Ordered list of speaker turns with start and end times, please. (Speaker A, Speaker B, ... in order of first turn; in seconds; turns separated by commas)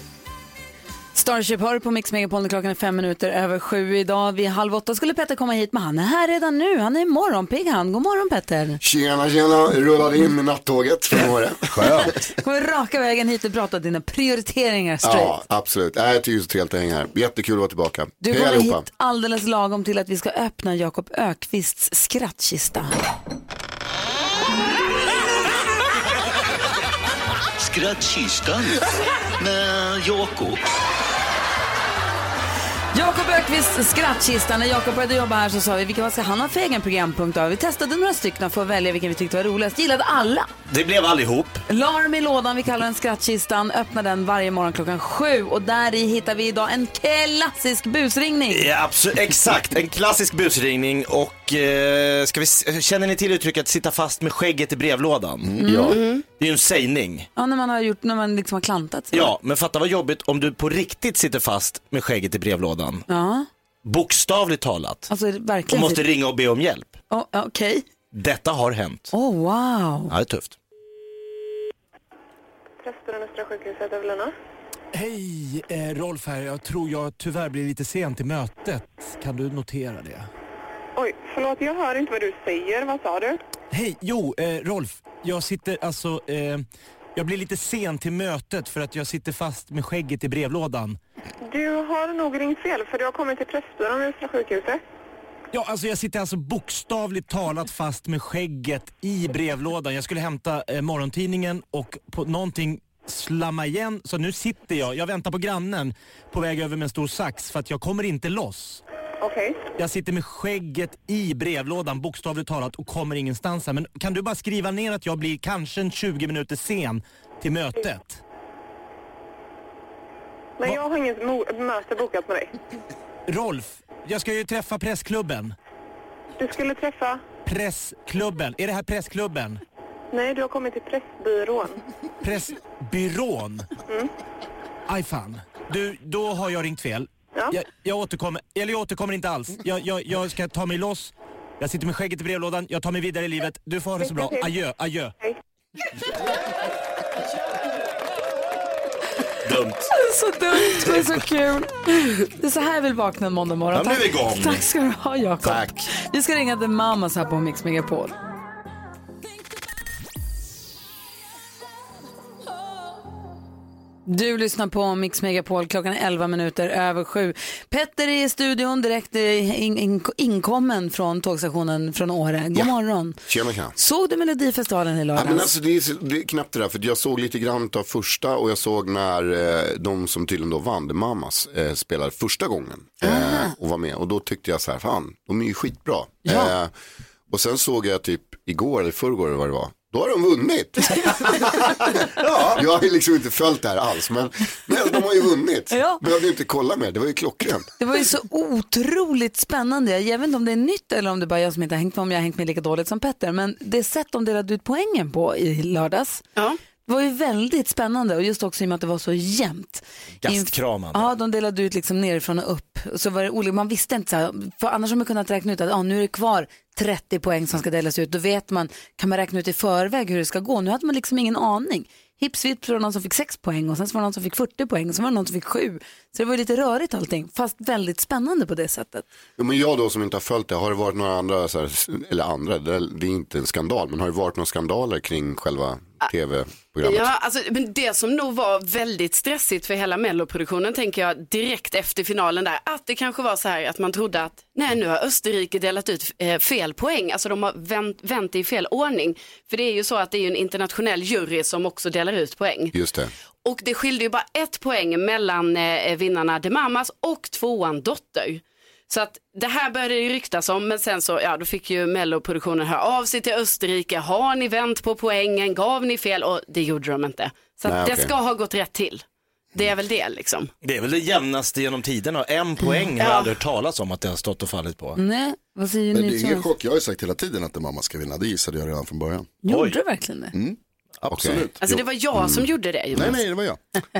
Speaker A: 1.1-8.8, Speaker B: 8.8-12.1, Speaker C: 11.8-12.2, Speaker A: 12.0-15.4, Speaker B: 15.0-18.8, Speaker A: 18.2-23.0, Speaker D: 27.5-28.8, Speaker D: 29.4-30.6, Speaker A: 32.9-40.5, Speaker C: 40.7-41.6, Speaker A: 41.7-48.7, Speaker C: 48.5-55.5, Speaker A: 55.6-56.0, Speaker B: 55.6-56.0, Speaker E: 55.9-56.2, Speaker C: 56.3-57.3, Speaker A: 57.4-59.3, Speaker C: 59.1-63.0, Speaker A: 63.1-63.5, Speaker C: 63.8-65.1, Speaker A: 65.1-66.0, Speaker C: 65.7-66.9, Speaker A: 67.1-67.8, Speaker C: 68.1-69.1, Speaker A: 69.1-70.1, Speaker C: 70.1-70.5, Speaker F: 72.8-74.3, Speaker G: 74.9-80.3, Speaker F: 81.0-83.4, Speaker G: 83.7-86.6, Speaker G: 87.2-91.0, Speaker F: 91.5-94.8, Speaker G: 95.5-108.8, Speaker F: 109.2-109.6, Speaker G: 109.8-118.2, Speaker F: 120.6-122.5, Speaker G: 123.3-125.5, Speaker F: 126.4-127.2, Speaker G: 127.4-129.6, Speaker F: 130.1-131.8, Speaker G: 132.2-133.7, Speaker G: 134.9-145.1, Speaker F: 144.0-144.5, Speaker C: 149.4-149.9, Speaker A: 149.9-158.1, Speaker C: 150.8-151.1, Speaker C: 153.7-154.7, Speaker C: 155.4-155.8, Speaker A: 164.1-173.2, Speaker B: 173.3-173.7, Speaker A: 173.8-175.5, Speaker B: 175.1-186.7, Speaker A: 183.0-183.5, Speaker B: 187.3-192.0, Speaker C: 192.3-192.6, Speaker B: 192.5-197.7, Speaker A: 195.7-196.0, Speaker A: 197.8-206.2, Speaker A: 206.8-229.1, Speaker C: 210.2-211.1, Speaker B: 229.4-237.1, Speaker E: 236.8-252.7, Speaker B: 252.7-253.1, Speaker E: 253.4-269.0, Speaker B: 267.6-268.1, Speaker E: 269.5-270.5, Speaker C: 270.6-275.0, Speaker E: 273.0-273.3, Speaker A: 274.9-276.5, Speaker H: 275.9-279.4, Speaker A: 279.4-280.3, Speaker C: 279.5-279.8, Speaker H: 280.3-281.5, Speaker B: 281.1-282.5, Speaker E: 281.6-283.2, Speaker H: 282.9-283.6